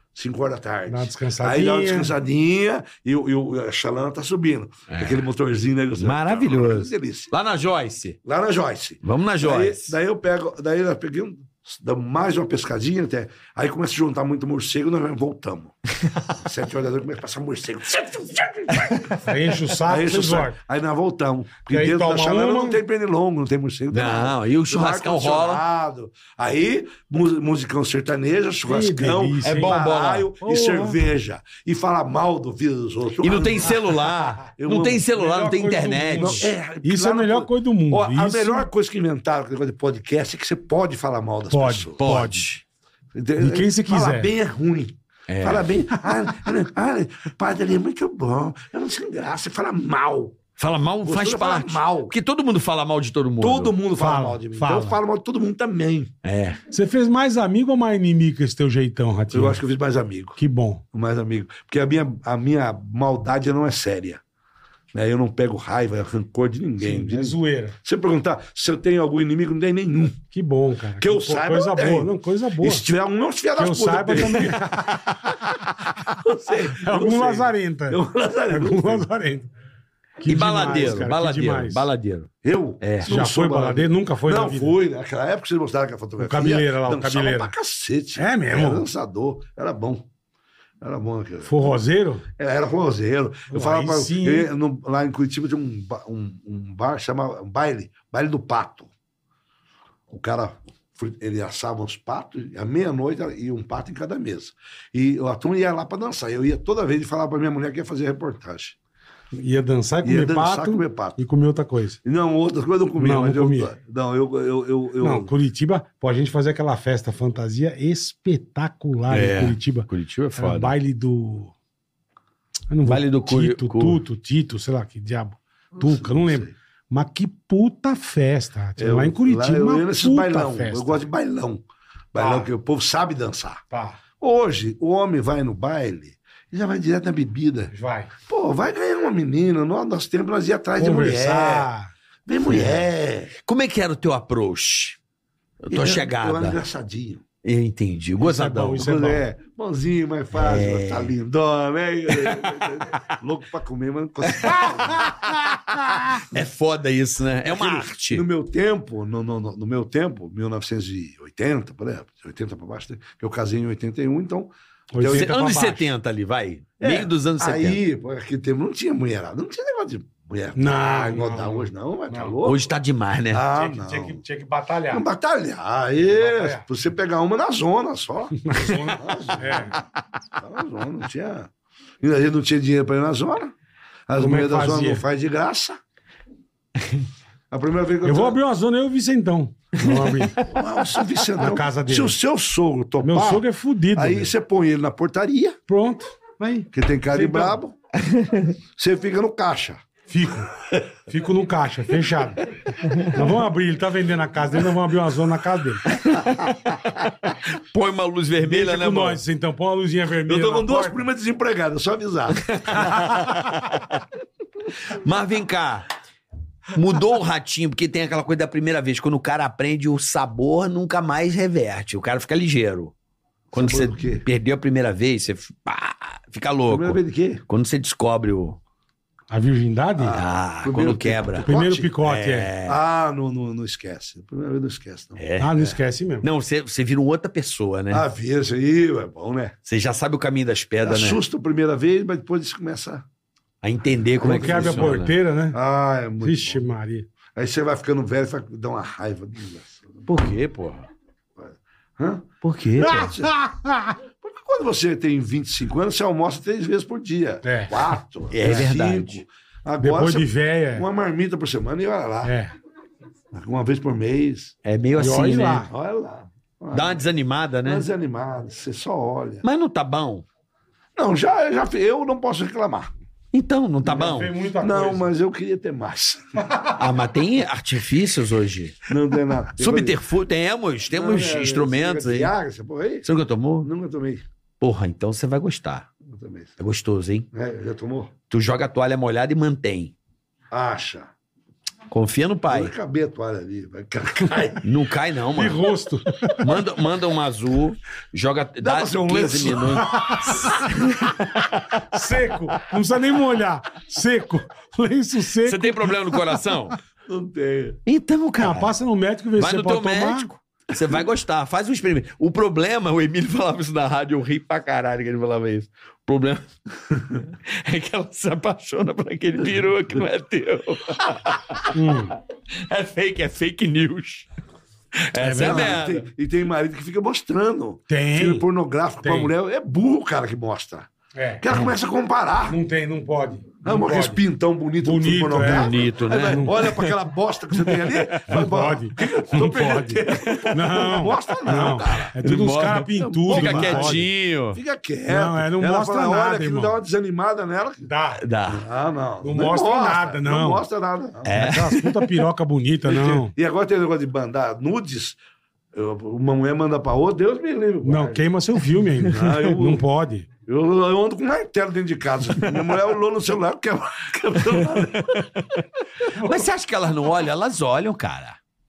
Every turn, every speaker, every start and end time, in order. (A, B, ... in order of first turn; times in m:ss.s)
0:00.2-0:07.3 A
0:00.9-0:02.1 B
0:04.9-0:05.2 C
0:06.0-0:08.2 C
0:08.2-0:15.7 A
0:09.0-0:10.0 C
0:16.0-0:16.3 C
0:16.4-0:19.1 A
0:18.7-0:19.2 C
0:19.2-0:20.6 B
0:19.8-0:35.1 A
0:21.7-0:22.8 B
0:23.9-0:25.6 C
0:28.7-0:29.8 B
0:29.4-0:30.3 C
0:30.4-0:31.0 B
0:33.2-0:36.5 C
0:35.1-0:38.7 B
0:36.2-0:42.0 A
0:41.5-0:42.5 B
0:42.0-0:42.6 C
0:43.1-0:50.4 A
0:43.4-0:44.3 B
0:45.3-0:45.7 C
0:50.6-0:53.7 C
0:51.0-0:52.1 A
0:53.4-0:56.1 A
0:54.0-0:55.0 B
0:56.2-0:56.6 C
0:56.7-0:59.6 B
0:59.3-1:00.4 A
1:00.4-1:00.8 B
1:00.9-1:04.2 A
1:04.9-1:10.2 A
1:06.8-1:07.8 B
1:10.3-1:12.9 B
1:11.0-1:15.4 A
1:13.6-1:15.1 B
1:16.1-1:19.1 A
1:16.7-1:19.5 B
1:20.2-1:21.9 B
1:20.3-1:23.1 C
1:22.4-1:30.1 A
1:23.0-1:24.8 B
1:26.2-1:27.5 B
1:28.2-1:28.9 B
1:30.8-1:31.7 A
1:31.4-1:32.2 B
1:32.4-1:38.9 A
1:33.5-1:34.5 B
1:40.1-1:48.8 A
1:49.4-1:52.0 B
1:50.0-1:51.2 A
1:52.0-1:55.3 A
1:53.0-1:53.7 B
1:55.0-2:01.5 B
1:59.1-2:00.8 C
2:02.7-2:11.1 B
2:02.8-2:04.0 C
2:05.8-2:06.5 A
2:08.8-2:13.6 A
2:12.2-2:12.5 B
2:13.7-2:14.0 B
2:14.2-2:17.7 A
2:17.7-2:18.1 B
2:18.3-2:21.7 A
2:20.8-2:21.9 B
2:22.3-2:23.3 A
2:22.5-2:22.8 C
2:23.4-2:25.0 C
2:25.6-2:26.6 C
2:25.7-2:27.2 A
2:27.4-2:28.9 C
2:28.2-2:29.2 B
2:28.8-2:35.2 A
2:30.3-2:31.2 C
2:32.2-2:33.1 C
2:34.3-2:38.2 C
2:34.6-2:35.3 B
2:35.8-2:36.2 B
2:37.4-2:45.3 A
2:44.9-2:45.9 B
2:45.0-2:47.8 C
2:46.8-2:52.7 A
2:50.6-2:52.4 B
2:52.4-2:53.4 C
2:53.3-2:54.2 A
2:53.5-2:55.0 B
2:54.9-2:59.8 A
2:56.1-2:56.6 B
2:58.4-2:59.8 B
3:00.4-3:01.5 A
3:02.0-3:03.5 A
3:04.1-3:05.8 A
3:04.2-3:05.0 B
3:07.5-3:08.4 A
3:08.0-3:10.4 B
3:09.8-3:10.5 C
3:10.5-3:15.6 A
3:11.4-3:12.2 B
3:13.0-3:14.3 B
3:15.7-3:17.6 B
3:16.6-3:17.8 A
3:18.0-3:18.6 C
3:18.8-3:19.8 A
3:20.1-3:20.5 B
3:21.1-3:26.0 B
3:25.9-3:29.2 C
3:28.4-3:31.1 B
3:30.3-3:32.8 A
3:32.3-3:34.0 C
3:32.8-3:33.4 B
3:34.9-3:35.9 C
3:36.7-3:42.9 C
3:43.5-3:48.6 C
3:43.5-3:44.2 A
3:46.7-3:47.4 A
3:49.3-3:50.2 B
3:50.0-3:52.0 A
3:50.1-3:51.5 C
3:51.5-3:52.5 B
3:52.0-3:52.8 C
3:52.6-3:55.7 A
3:55.2-3:55.7 C
3:55.4-3:56.3 B
3:56.2-3:58.0 C
3:57.9-3:59.6 A
3:59.7-4:01.2 C
4:00.8-4:03.0 A
4:03.6-4:05.1 C
4:04.2-4:06.6 A
4:04.2-4:05.6 B
4:06.2-4:07.1 B
4:07.4-4:10.0 A
4:10.1-4:10.9 C
4:11.4-4:13.4 A
4:12.4-4:13.1 C
4:12.8-4:14.0 B
4:14.2-4:22.3 A
4:17.4-4:18.7 B
4:18.3-4:19.2 C
4:19.8-4:20.9 B
4:22.2-4:22.5 B
4:23.3-4:24.5 A
4:24.6-4:25.7 C
4:25.0-4:25.7 B
4:25.7-4:27.1 A
4:26.7-4:27.8 C
4:27.6-4:29.4 A
4:29.4-4:30.3 C
4:31.0-4:32.9 A
4:33.3-4:34.3 C
4:33.8-4:35.1 B
4:34.6-4:36.4 A
4:36.5-4:36.8 B
4:36.8-4:38.9 C
4:38.9-4:40.0 A
4:39.6-4:42.3 C
4:40.9-4:43.1 A
4:43.0-4:43.7 C
4:43.6-4:44.2 A
4:44.6-4:45.9 C
4:46.0-4:46.6 A
4:46.6-4:47.3 C
4:47.3-4:48.1 A
4:48.3-4:49.9 C
4:50.5-4:51.1 A
4:51.9-4:52.7 C
4:52.5-4:54.7 A
4:54.6-4:55.7 C
4:55.3-4:56.5 B
4:56.3-5:01.8 C
4:58.6-4:59.9 A
4:59.7-5:00.6 B
5:01.9-5:06.6 B
5:05.4-5:06.8 C
5:07.1-5:07.8 A
5:07.9-5:08.8 C
5:08.4-5:10.3 B
5:09.4-5:22.0 C
5:21.7-5:22.2 B
5:22.6-5:24.3 C
5:25.0-5:26.1 C
5:25.2-5:25.8 B
5:25.4-5:30.9 A
5:27.9-5:28.5 B
5:29.0-5:29.3 B
5:31.2-5:31.4 B
5:31.4-5:32.6 A
5:32.5-5:34.2 B
5:33.6-5:47.9 A
5:34.8-5:36.6 B
5:35.4-5:37.0 C
5:37.6-5:38.2 C
5:38.3-5:44.1 B
5:40.1-5:40.9 C
5:41.7-5:44.6 C
5:45.1-5:46.8 B
5:47.8-5:48.2 B
5:48.2-5:48.6 C
5:48.5-5:51.5 A
5:49.2-5:50.6 B
5:51.2-5:52.2 C
5:51.3-5:53.3 B
5:52.9-5:55.2 A
5:55.7-5:58.2 A
5:57.8-6:00.3 B
5:59.1-5:59.8 A
6:00.5-6:05.3 A
6:02.4-6:02.6 C
6:04.5-6:08.4 C
6:06.2-6:06.4 B